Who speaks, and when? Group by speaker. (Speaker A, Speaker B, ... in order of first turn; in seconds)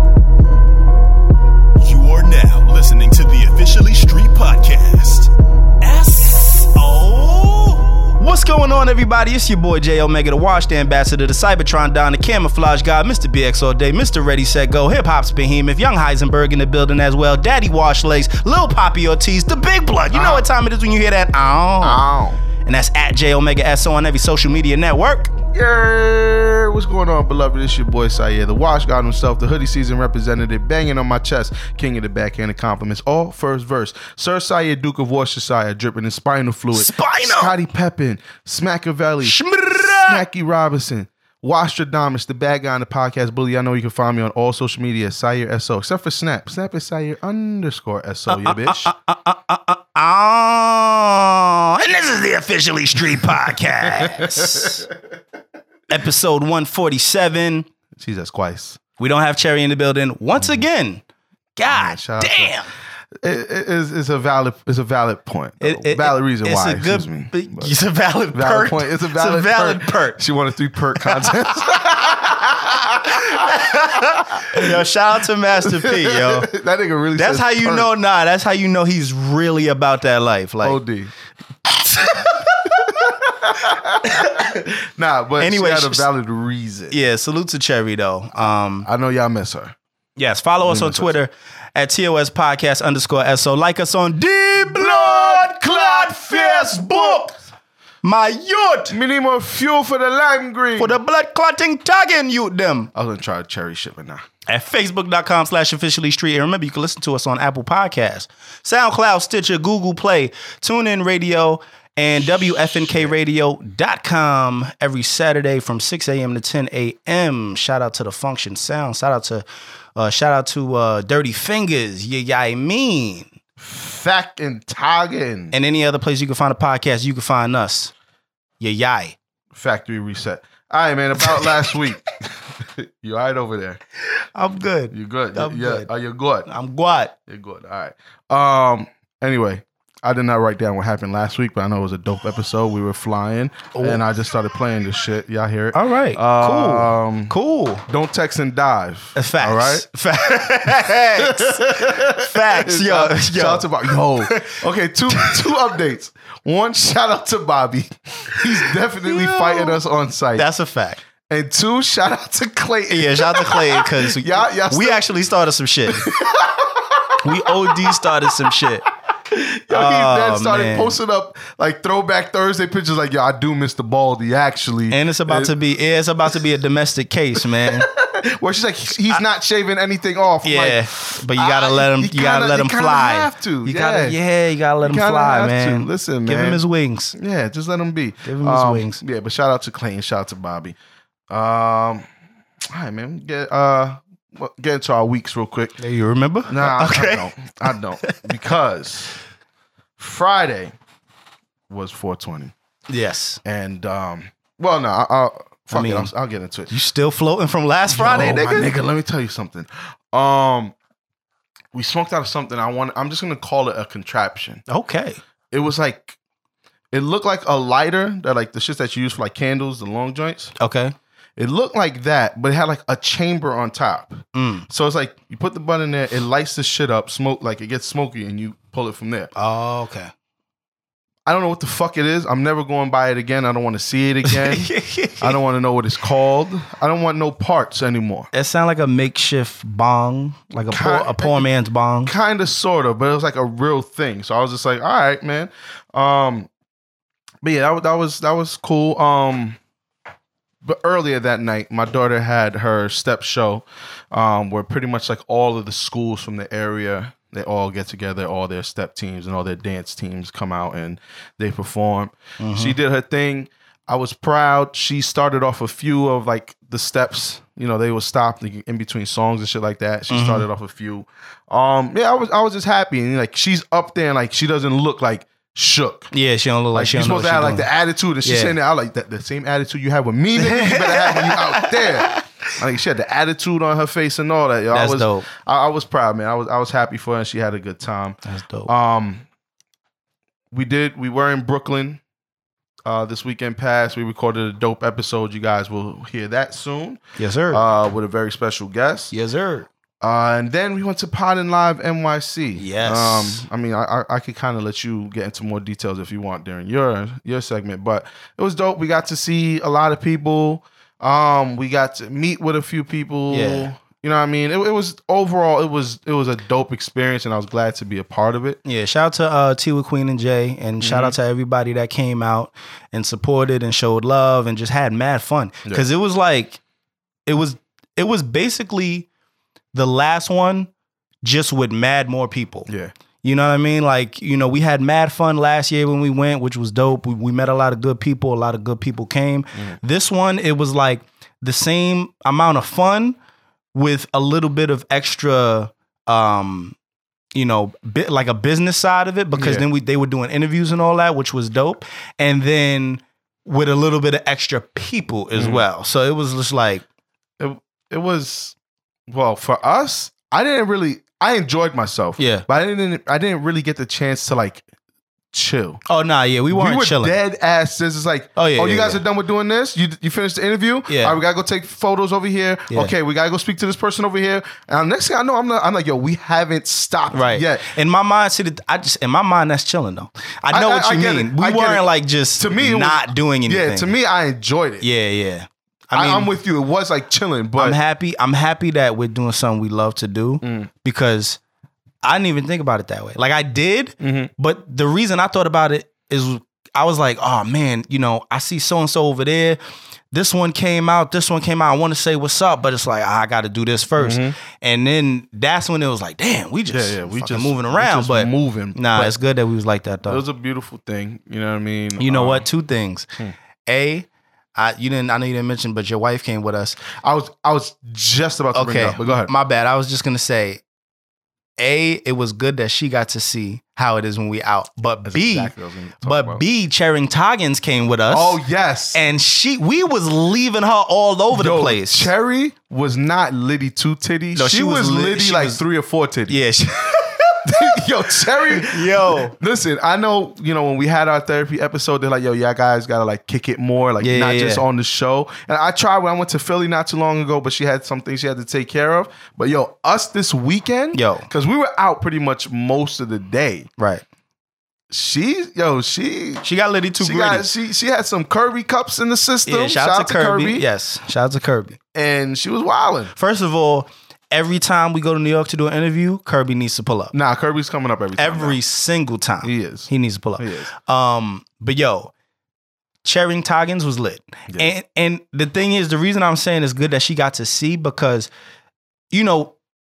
Speaker A: 1.8-22.0, 22.6-25.3, 36.7-37.5, 39.2-40.2, 48.3-54.9, 55.9-57.7, 59.0-61.0, 61.6-62.7, 65.6-70.2, 71.0-71.9, 72.8-76.5, 77.2-80.8, 81.7-82.7, 84.0-84.5, 85.4-86.1, 86.9-88.9, 90.2-97.3, 98.0-99.0, 100.8-102.9, 104.5-119.4, 120.0-123.3, 125.5-127.9, 128.6-129.2, 131.2-131.8, 134.2-135.9, 136.5-137.1, 143.7-144.0, 145.7-147.8, 149.2-154.6, 155.1-155.4, 159.1-159.8, 160.4-161.0, 162.9-166.1, 167.2-168.9, 169.7-170.9, 174.9-177.9, 180.4-187.2, 188.2-189.0, 195.8-197.3, 198.0-198.3, 202.9-203.4, 205.7-206.1, 206.7-208.7, 214.7-215.2, 220.6-220.9, 224.3-224.7, 229.4-230.1, 234.3-235.4, 238.3-242.1, 262.4-262.8, 270.1-270.5, 276.1-277.7, 278.2-278.6, 280.4-282.2, 284.7-285.3, 288.3-288.7, 297.2-297.6, 299.1-299.7, 302.6-303.4, 313.3-313.7, 318.6-326.6, 327.3-329.1, 329.7-330.7, 331.2-332.7, 333.2-343.2, 343.7-346.8, 347.4-356.8, 362.2-362.4, 365.9-367.1, 368.4-369.0, 370.9-371.2, 377.1-383.9, 384.8-386.3, 387.6-391.4, 392.0-399.6, 400.1-410.2, 412.0-413.1, 413.7-416.8, 418.5-420.6, 421.6-425.5, 426.0-428.4, 428.9-432.1, 434.4-435.6, 436.3-439.3, 444.0-444.6, 450.9-451.3, 453.8-454.0, 456.4-457.4, 459.5-461.8, 463.2-467.1, 468.2-472.1, 473.0-478.3, 479.1-479.6
Speaker B: 20.1-20.5, 21.8-22.4, 25.5-48.9, 54.0-54.7, 58.0-58.8, 61.7-62.5, 63.2-67.7, 68.3-74.8, 75.6-77.9, 80.6-81.1, 82.9-87.0, 88.8-89.8, 90.6-91.2, 94.7-97.3, 98.9-101.0, 102.9-104.2, 112.9-113.1, 123.6-125.5, 129.5-133.8, 134.9-136.5, 137.3-147.3, 147.9-149.9, 151.2-160.5, 161.3-165.0, 165.9-168.5, 169.3-175.5, 177.6-184.2, 184.8-186.6, 187.2-190.8, 191.3-192.1, 192.7-195.8, 196.5-199.1, 200.0-200.7, 201.7-202.5, 203.4-206.7, 207.9-210.8, 211.7-214.6, 215.5-216.2, 216.9-220.5, 221.4-229.3, 231.3-238.3, 240.7-241.5, 242.0-246.5, 247.4-249.6, 250.6-276.1, 276.8-289.3, 290.5-292.0, 292.9-299.1, 300.0-318.6, 320.8-321.1, 332.7-332.9, 349.4-349.6, 355.4-355.6, 357.4-358.6, 359.1-364.6, 365.3-365.8, 366.5-377.7, 380.5-384.9, 385.9-387.8, 390.4-390.7, 394.0-394.3, 404.0-404.4, 406.7-409.1, 410.1-412.5, 417.0-419.3, 425.1-426.4, 428.1-429.0, 431.3-436.4, 437.5-453.7, 454.9-456.4, 457.0-460.6, 461.9-463.1, 467.1-468.6, 469.4-470.7